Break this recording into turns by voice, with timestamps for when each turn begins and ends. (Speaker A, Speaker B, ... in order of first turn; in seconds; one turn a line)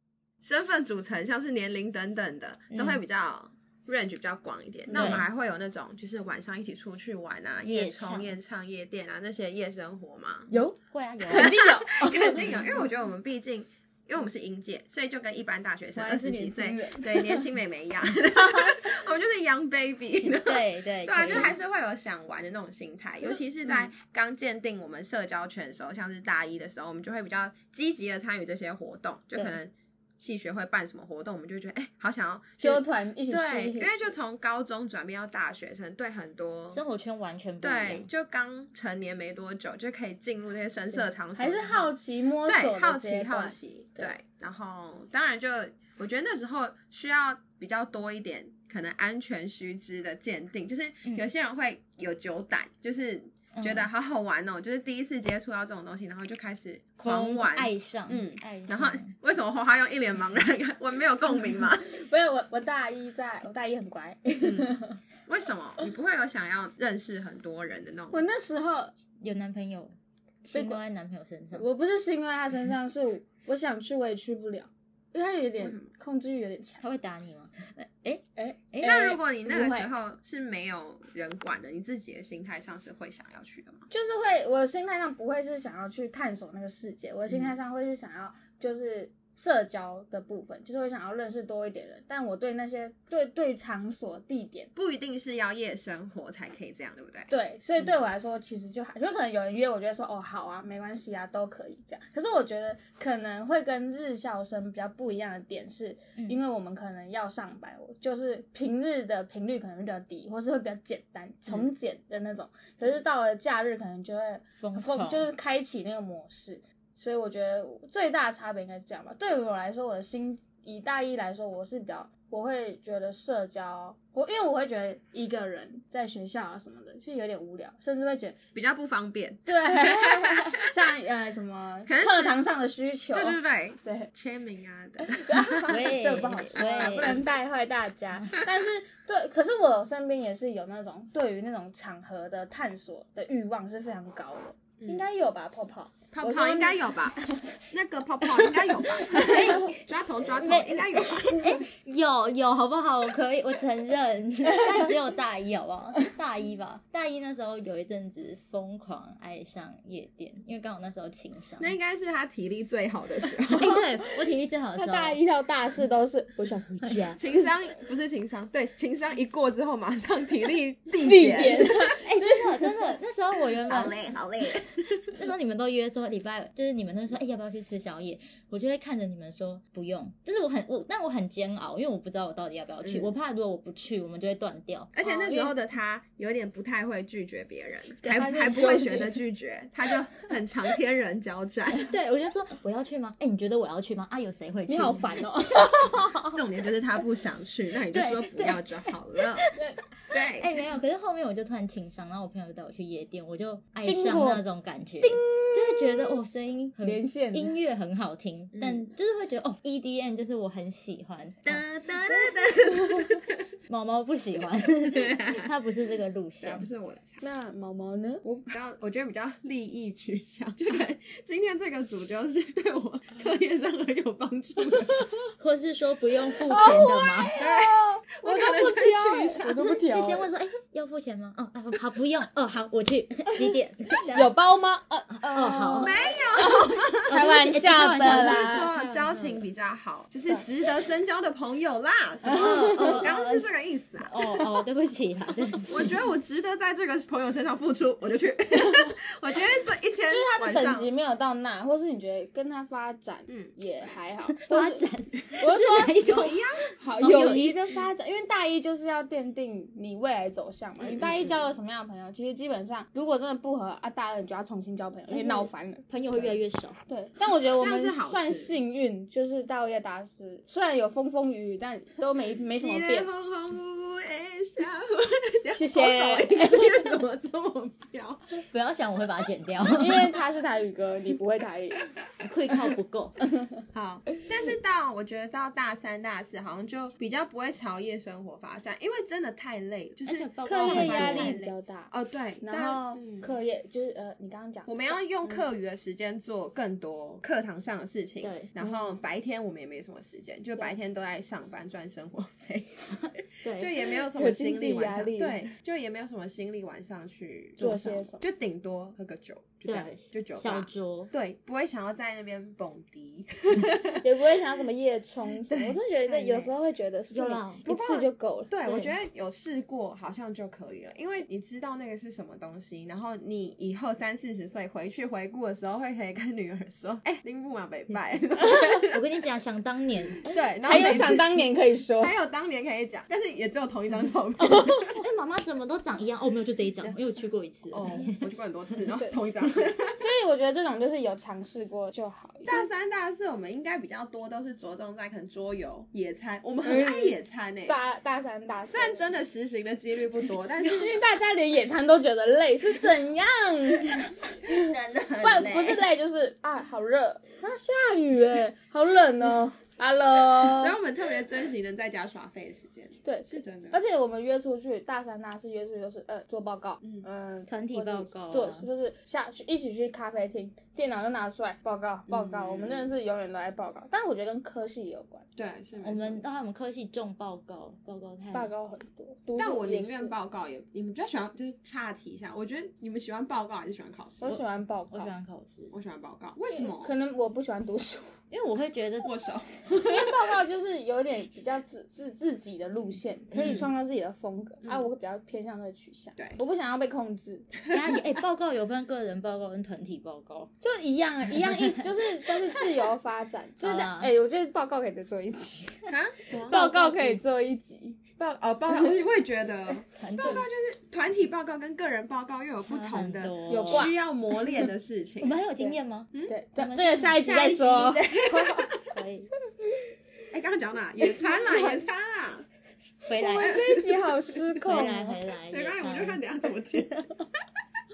Speaker A: 0.4-10.5
Speaker B: 2.7-3.0
Speaker C: 4.9-5.2
Speaker B: 4.9-5.2
Speaker B: 7.6-8.4
Speaker C: 10.5-10.8
Speaker B: 10.8-11.6
Speaker C: 11.3-12.4
Speaker A: 11.3-36.8
Speaker B: 12.4-12.8
Speaker C: 16.0-17.5
Speaker C: 18.4-18.8
Speaker B: 20.2-21.6
Speaker C: 23.2-23.9
Speaker C: 32.6-34.1
Speaker B: 36.7-38.1
Speaker A: 37.6-41.9
Speaker C: 41.4-44.1
Speaker A: 42.5-61.9
Speaker B: 53.5-53.9
Speaker B: 57.0-59.1
Speaker C: 61.5-65.0
Speaker A: 64.4-64.7
Speaker A: 65.3-68.2
Speaker C: 68.1-68.9
Speaker B: 69.2-71.7
Speaker C: 70.5-70.8
Speaker C: 71.5-76.8
Speaker B: 76.8-79.2
Speaker C: 78.4-79.9
Speaker A: 78.8-83.9
Speaker C: 83.9-94.7
Speaker A: 94.8-97.3
Speaker C: 97.3-128.4
Speaker B: 114.5-115.3
Speaker A: 128.6-130.7
Speaker C: 129.5-134.1
Speaker A: 131.9-132.4
Speaker A: 133.1-137.2
Speaker C: 135.0-147.5
Speaker B: 135.7-137.2
Speaker A: 144.8-145.1
Speaker A: 146.1-151.6
Speaker C: 148.3-149.6
Speaker B: 149.2-149.8
Speaker B: 150.4-161.7
Speaker A: 161.6-163.9
Speaker B: 163.5-165.2
Speaker C: 164.8-167.2
Speaker A: 167.2-172.0
Speaker C: 171.0-172.7
Speaker B: 172.0-174.0
Speaker A: 173.7-175.2
Speaker B: 175.1-184.9
Speaker A: 182.8-183.1
Speaker A: 184.9-191.9
Speaker C: 185.0-185.5
Speaker C: 188.0-189.2
Speaker B: 191.8-195.2
Speaker C: 194.7-196.4
Speaker A: 196.3-199.4
Speaker B: 197.9-199.5
Speaker C: 199.6-199.9
Speaker A: 200.1-200.5
Speaker B: 200.3-211.7
Speaker C: 203.9-204.4
Speaker C: 205.0-205.9
Speaker C: 206.8-207.6
Speaker A: 208.6-208.9
Speaker A: 211.5-213.4
Speaker B: 213.7-216.7
Speaker A: 214.8-215.5
Speaker A: 216.4-217.2
Speaker C: 217.2-218.2
Speaker A: 218.2-225.2
Speaker B: 225.4-227.3
Speaker C: 226.5-230.3
Speaker A: 227.4-229.8
Speaker B: 229.9-234.3
Speaker C: 234.1-238.7
Speaker B: 235.2-236.2
Speaker A: 235.8-237.2
Speaker B: 237.1-239.4
Speaker A: 238.0-244.1
Speaker C: 242.2-243.1
Speaker B: 242.3-246.0
Speaker A: 245.6-250.9
Speaker C: 250.1-254.9
Speaker B: 254.3-256.4
Speaker C: 255.4-256.0
Speaker A: 256.0-256.7
Speaker C: 256.8-273.1
Speaker B: 257.0-257.7
Speaker A: 260.8-261.5
Speaker B: 265.1-266.8
Speaker A: 267.5-268.6
Speaker A: 272.5-278.4
Speaker C: 275.5-276.8
Speaker B: 278.4-280.2
Speaker C: 279.8-281.8
Speaker B: 282.2-283.2
Speaker A: 283.7-293.3
Speaker B: 290.1-291.4
Speaker C: 290.4-291.9
Speaker C: 292.4-295.4
Speaker A: 294.7-314.0
Speaker B: 298.2-298.5
Speaker C: 298.6-299.0
Speaker B: 303.4-303.7
Speaker C: 304.1-305.5
Speaker C: 307.6-308.2
Speaker B: 309.7-311.1
Speaker C: 314.0-318.5
Speaker A: 316.1-316.5
Speaker B: 317.1-317.6
Speaker A: 317.7-329.0
Speaker B: 318.6-318.9
Speaker B: 328.9-330.3
Speaker A: 330.2-331.4
Speaker C: 330.6-332.1
Speaker A: 332.0-335.0
Speaker B: 334.4-338.3
Speaker A: 337.7-340.0
Speaker C: 340.0-342.7
Speaker A: 342.4-347.8
Speaker C: 346.6-349.0
Speaker A: 348.7-351.0
Speaker C: 350.6-360.8
Speaker A: 354.5-355.8
Speaker A: 360.4-363.8
Speaker C: 363.1-375.3
Speaker B: 367.5-368.7
Speaker A: 372.1-372.9
Speaker A: 375.4-376.2
Speaker B: 375.8-378.5
Speaker C: 378.3-380.1
Speaker A: 379.4-384.2
Speaker C: 384.2-385.1
Speaker B: 384.2-385.7
Speaker A: 385.7-386.9
Speaker C: 386.5-388.1
Speaker B: 388.3-389.1
Speaker A: 389.0-390.2
Speaker C: 389.8-397.5
Speaker B: 393.4-393.7
Speaker B: 397.7-400.5
Speaker C: 400.6-405.9
Speaker B: 401.3-401.9
Speaker B: 403.6-404.1
Speaker A: 405.9-406.6
Speaker C: 406.5-408.0
Speaker B: 406.5-407.2
Speaker A: 408.2-415.4
Speaker C: 408.7-409.0
Speaker B: 410.0-410.5
Speaker B: 412.6-413.9
Speaker C: 413.5-413.9
Speaker B: 415.2-419.3
Speaker C: 415.6-418.0
Speaker A: 417.2-418.9
Speaker A: 420.3-422.5
Speaker C: 421.1-421.8
Speaker B: 423.1-423.6
Speaker A: 423.1-424.9
Speaker C: 423.3-425.2
Speaker B: 424.7-426.2
Speaker A: 425.5-427.2